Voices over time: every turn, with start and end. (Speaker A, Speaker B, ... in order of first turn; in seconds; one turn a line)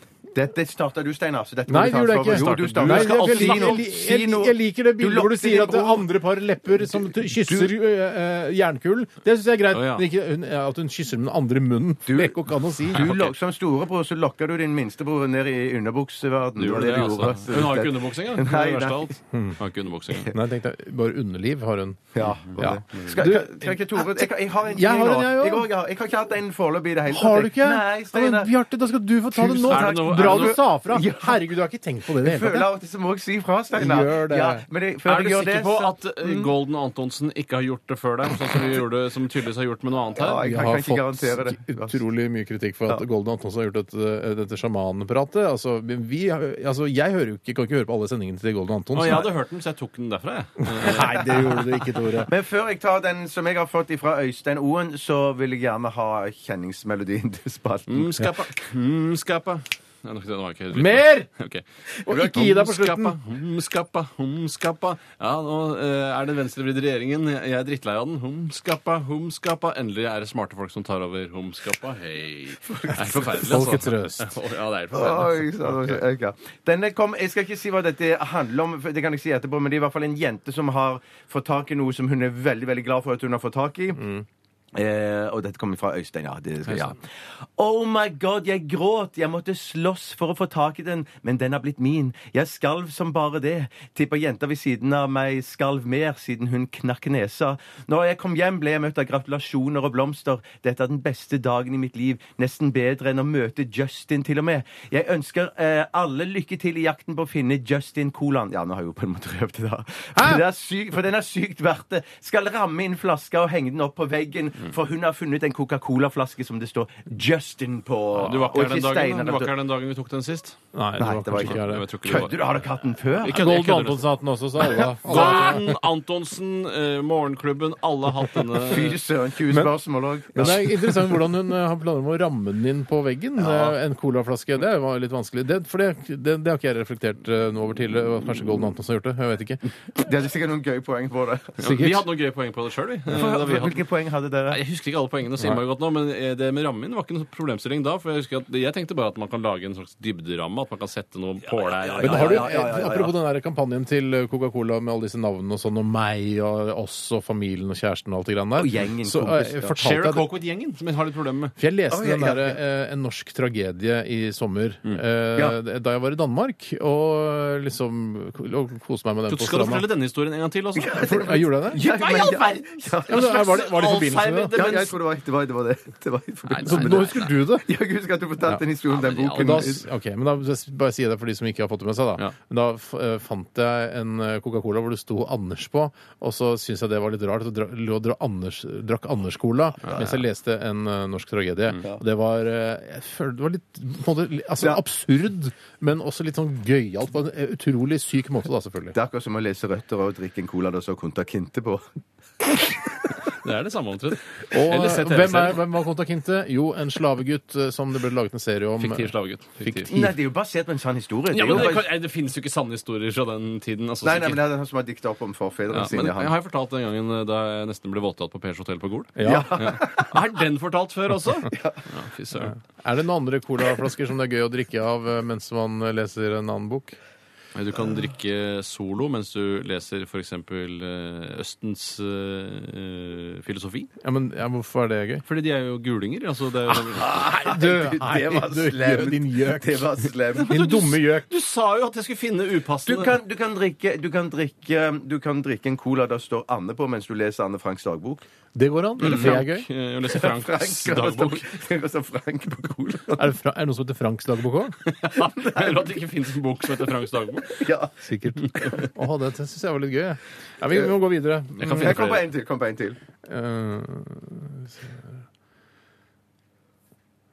Speaker A: 0.3-6.1
Speaker B: 1.7-13.1
Speaker C: 2.3-3.8
Speaker A: 7.3-7.7
Speaker C: 9.7-10.1
Speaker A: 12.1-19.1
Speaker C: 12.9-13.3
Speaker C: 16.6-20.3
Speaker B: 19.3-19.6
Speaker B: 20.3-25.7
Speaker A: 22.1-28.5
Speaker C: 22.2-23.2
Speaker B: 27.1-32.7
Speaker A: 29.3-31.4
Speaker C: 29.7-30.6
Speaker A: 32.2-36.5
Speaker B: 33.8-34.6
Speaker C: 35.1-40.4
Speaker A: 40.2-42.0
Speaker B: 40.4-49.3
Speaker C: 48.9-51.5
Speaker B: 50.7-52.3
Speaker A: 51.3-51.6
Speaker A: 52.2-58.3
Speaker C: 57.9-75.5
Speaker B: 60.7-61.3
Speaker B: 62.1-63.2
Speaker A: 72.7-73.4
Speaker B: 73.3-74.4
Speaker A: 74.9-84.0
Speaker B: 84.0-84.2
Speaker A: 84.7-87.0
Speaker C: 86.7-86.9
Speaker A: 87.6-119.5
Speaker B: 110.2-110.4
Speaker C: 118.2-120.6
Speaker B: 120.7-121.9
Speaker A: 121.0-123.5
Speaker C: 121.3-122.4
Speaker C: 123.2-124.1
Speaker B: 123.3-125.8
Speaker C: 124.7-128.9
Speaker A: 125.2-125.5
Speaker A: 128.7-131.1
Speaker B: 130.3-139.6
Speaker A: 133.5-133.7
Speaker A: 140.0-141.6
Speaker C: 141.6-143.8
Speaker B: 141.6-142.1
Speaker A: 143.1-144.6
Speaker C: 144.5-152.5
Speaker A: 151.8-153.1
Speaker B: 152.0-160.3
Speaker A: 158.6-159.8
Speaker C: 159.8-161.6
Speaker B: 161.6-169.9
Speaker A: 161.9-162.6
Speaker C: 169.3-171.2
Speaker A: 170.8-173.5
Speaker B: 170.9-171.8
Speaker C: 171.7-174.9
Speaker B: 173.1-174.7
Speaker A: 174.5-179.8
Speaker C: 176.5-177.3
Speaker B: 176.6-177.7
Speaker C: 178.9-179.7
Speaker B: 179.3-198.9
Speaker A: 198.9-201.8
Speaker C: 203.4-205.6
Speaker B: 204.5-210.1
Speaker C: 208.8-209.9
Speaker A: 209.9-211.9
Speaker C: 211.3-214.4
Speaker A: 214.0-216.3
Speaker C: 215.7-222.6
Speaker B: 219.2-219.6
Speaker A: 219.2-220.2
Speaker A: 221.5-221.8
Speaker B: 222.4-227.0
Speaker C: 227.6-233.9
Speaker B: 234.0-235.2
Speaker C: 235.3-237.2
Speaker B: 236.9-241.3
Speaker A: 237.0-240.6
Speaker C: 240.4-243.2
Speaker A: 242.9-248.3
Speaker B: 248.6-249.7
Speaker A: 249.0-249.4
Speaker C: 249.0-251.5
Speaker A: 250.1-253.3
Speaker B: 253.2-254.8
Speaker C: 254.8-257.6
Speaker A: 255.2-255.9
Speaker A: 257.5-258.1
Speaker B: 258.0-262.1
Speaker C: 258.4-258.9
Speaker C: 261.6-262.2
Speaker A: 261.6-263.0
Speaker B: 263.2-265.2